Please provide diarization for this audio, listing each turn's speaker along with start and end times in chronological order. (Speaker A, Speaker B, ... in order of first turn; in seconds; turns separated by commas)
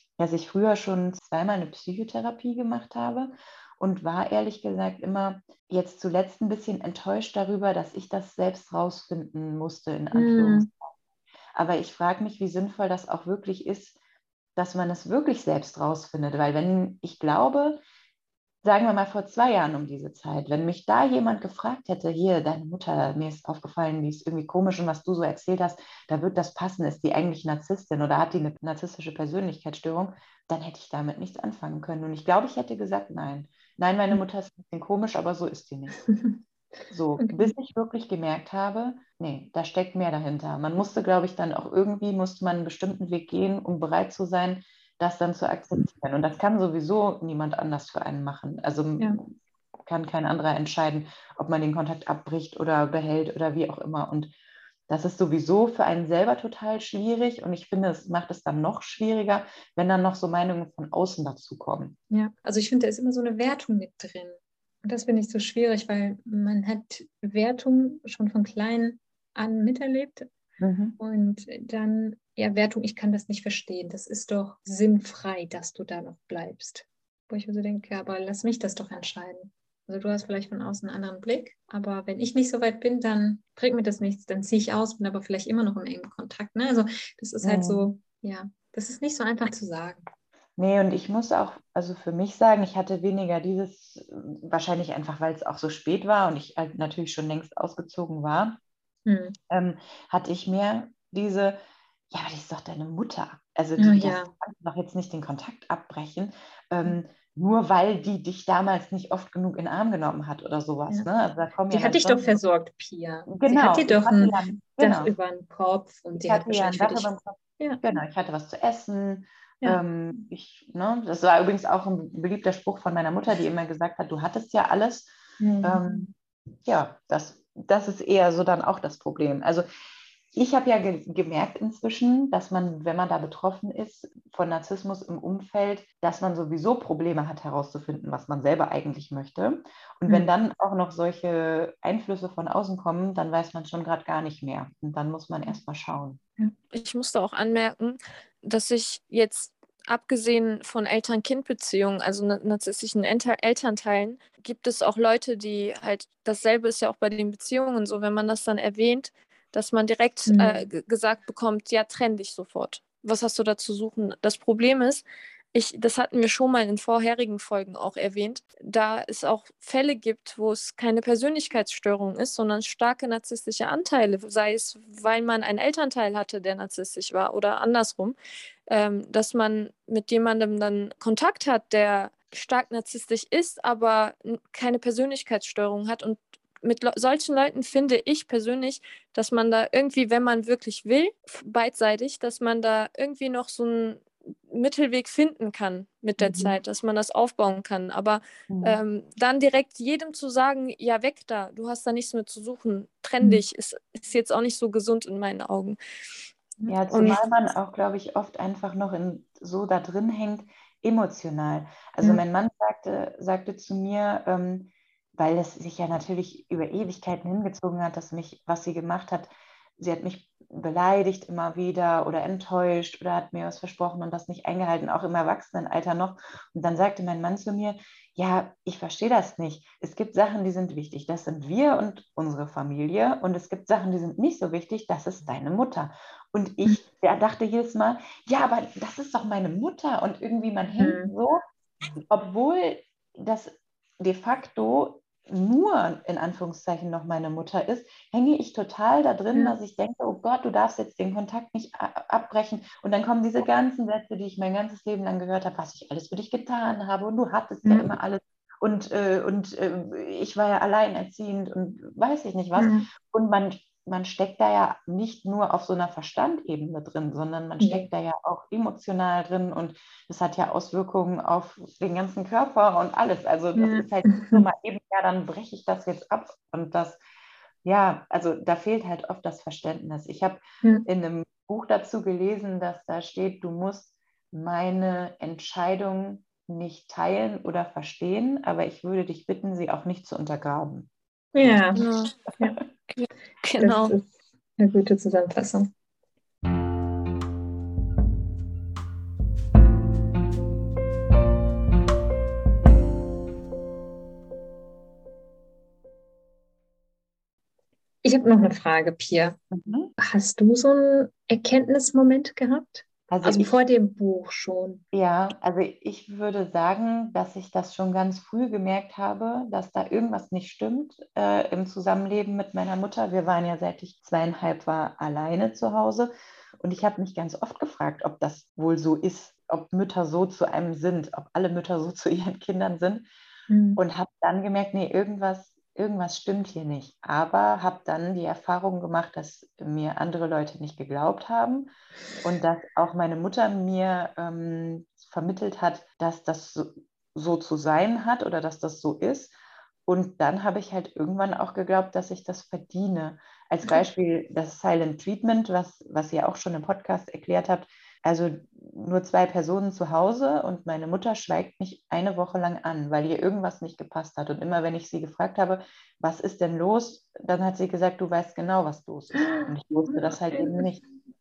Speaker A: 0.2-10.7, Speaker B: 10.1-10.7, Speaker A: 11.5-13.9, Speaker A: 14.6-17.8, Speaker A: 18.6-36.0, Speaker B: 36.1-36.4, Speaker A: 36.9-49.3, Speaker B: 37.2-37.5, Speaker A: 49.9-54.3, Speaker A: 54.9-62.0, Speaker B: 62.1-70.3, Speaker A: 70.6-71.0, Speaker B: 71.0-90.0, Speaker A: 87.4-87.9, Speaker A: 90.6-98.6, Speaker B: 99.0-99.3, Speaker A: 99.5-101.6, Speaker A: 102.1-112.4, Speaker B: 103.8-104.3, Speaker B: 111.7-117.8, Speaker A: 113.3-115.1, Speaker A: 116.2-126.1, Speaker B: 119.6-120.2, Speaker B: 125.4-126.1, Speaker A: 126.6-129.7, Speaker A: 130.3-146.2, Speaker C: 146.7-178.2, Speaker B: 160.3-160.6, Speaker C: 178.7-205.8, Speaker B: 196.2-196.5, Speaker A: 198.5-198.8, Speaker A: 206.7-241.4, Speaker C: 206.9-207.2, Speaker B: 240.8-241.1, Speaker A: 241.9-277.0, Speaker B: 257.6-257.9, Speaker B: 262.6-262.9, Speaker B: 267.6-267.9, Speaker B: 273.6-274.4, Speaker A: 277.6-291.8, Speaker B: 291.3-291.8, Speaker C: 291.8-292.1, Speaker C: 292.9-293.9, Speaker B: 293.6-294.0, Speaker B: 294.6-295.7, Speaker B: 308.0-309.4, Speaker A: 309.5-309.9, Speaker B: 310.0-314.8, Speaker A: 313.1-313.6, Speaker A: 314.9-333.1, Speaker B: 333.5-333.8, Speaker A: 333.8-341.7, Speaker A: 342.2-349.4, Speaker A: 349.9-370.8, Speaker B: 369.2-370.6